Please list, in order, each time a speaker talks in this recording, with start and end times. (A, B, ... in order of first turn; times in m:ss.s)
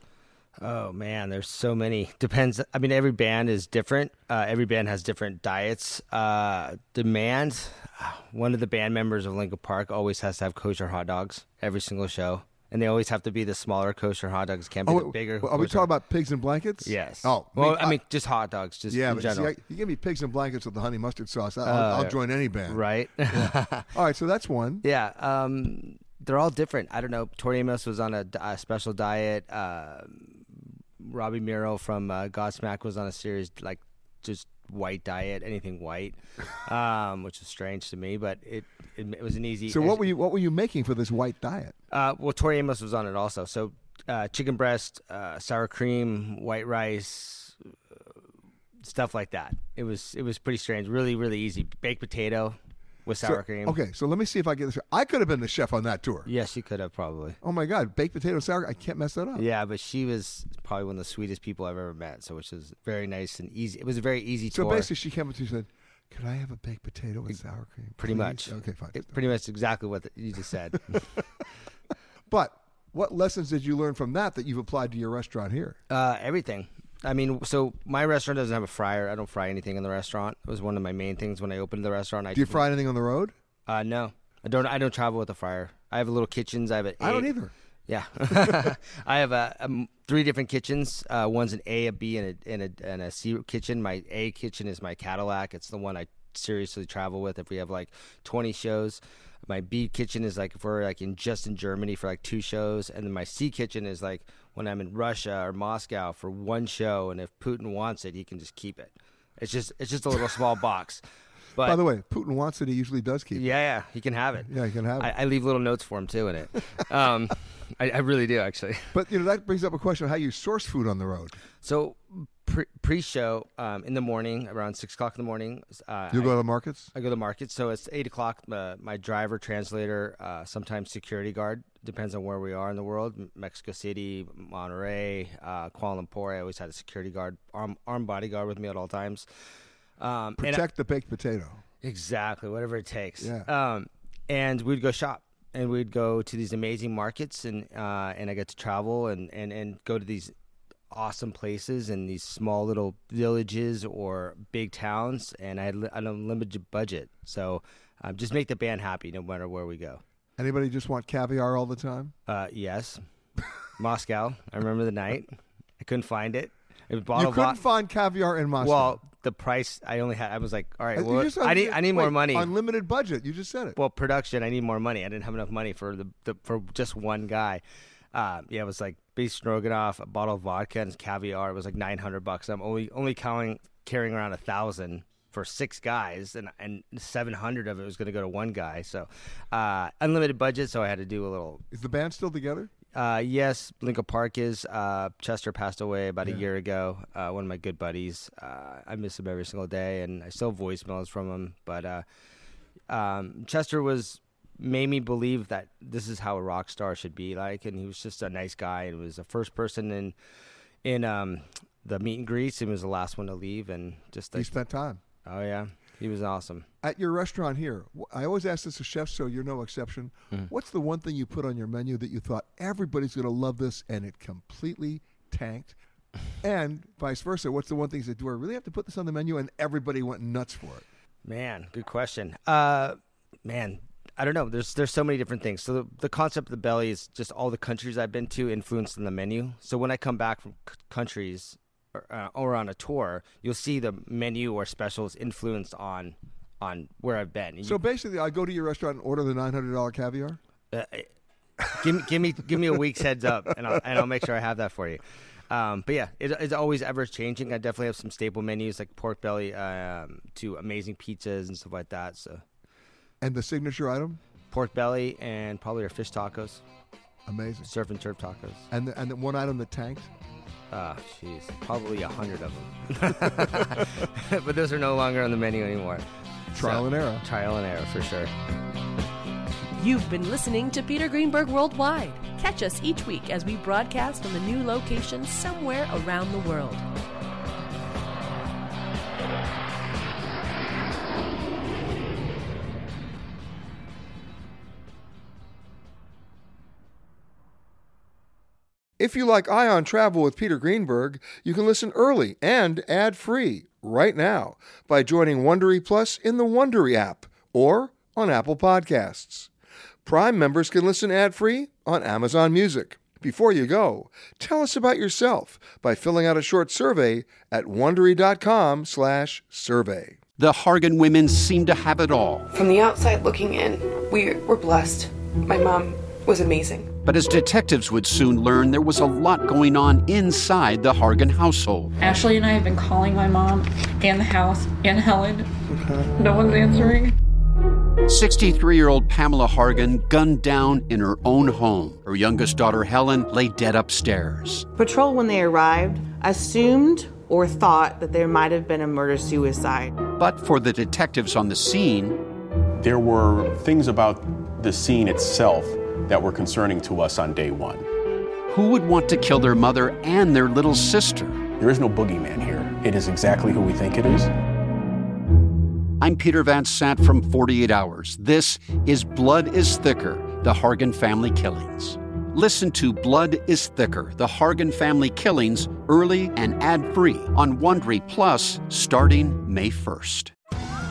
0:00.6-0:15.9 A
0:14.8-0:18.0 B
0:16.8-0:19.5 A
0:18.9-0:24.8 B
0:21.6-0:22.2 A
0:22.7-0:23.9 A
0:24.8-0:30.5 A
0:31.0-0:40.0 A
0:39.7-0:41.7 B
0:41.9-0:48.0 A
0:48.8-0:53.8 A
0:53.2-0:56.3 B
0:56.2-0:57.4 A
0:57.4-0:59.4 B
0:59.3-1:04.9 A
1:04.5-1:09.1 B
1:08.0-1:11.0 A
1:10.9-1:11.2 B
1:12.3-1:15.8 B
1:15.9-1:22.6 A
1:22.3-1:23.3 B
1:23.7-1:27.3 A
1:27.0-1:27.5 B
1:27.9-1:51.0 A
1:51.6-1:51.8 A
1:51.6-1:53.4 B
1:53.3-1:58.9 A
1:54.4-1:55.1 B
1:58.9-2:01.4 B
2:01.6-2:06.4 A
2:06.1-2:06.9 B
2:06.9-2:19.3 A
2:20.0-2:20.6 A
2:20.4-2:21.6 B
2:21.8-2:30.3 A
2:23.2-2:23.5 B
2:30.9-2:40.0 A
2:40.4-2:42.1 B
2:42.3-2:43.0 A
2:43.8-2:47.6 A
2:47.1-2:49.0 B
2:48.6-2:52.5 A
2:50.9-2:53.8 B
2:53.8-2:57.6 A
2:58.1-3:11.6 A
3:11.7-3:12.7 B
3:12.9-3:22.0 A
3:22.9-3:30.1 A
3:30.8-3:34.5 A
3:34.3-3:35.0 B
3:35.2-3:36.7 A
3:36.8-3:45.8 B
3:46.4-3:50.8 B
3:51.2-4:07.8 A
4:07.6-4:10.4 B
4:10.7-4:11.1 A
4:11.8-4:22.4 A
4:23.2-4:24.2 B
4:24.5-4:26.6 A
4:27.3-4:27.7 B
4:27.6-4:28.7 A
4:28.7-4:30.1 B
4:30.7-4:38.3 A
4:36.5-4:37.2 B
4:39.8-4:46.8 C
4:59.0-5:09.5 B
5:10.0-5:20.2 B
5:20.4-5:22.4 D
5:22.6-5:26.8 E
5:27.0-5:31.9 D
5:32.0-5:35.5 F
5:36.2-5:37.1 F
5:38.1-5:44.6 D
5:44.7-5:50.0 G
5:50.2-5:52.2 D
5:52.8-5:57.9 H
5:58.5-6:01.4 D
6:01.6-6:04.3 H
6:06.0-6:20.3 D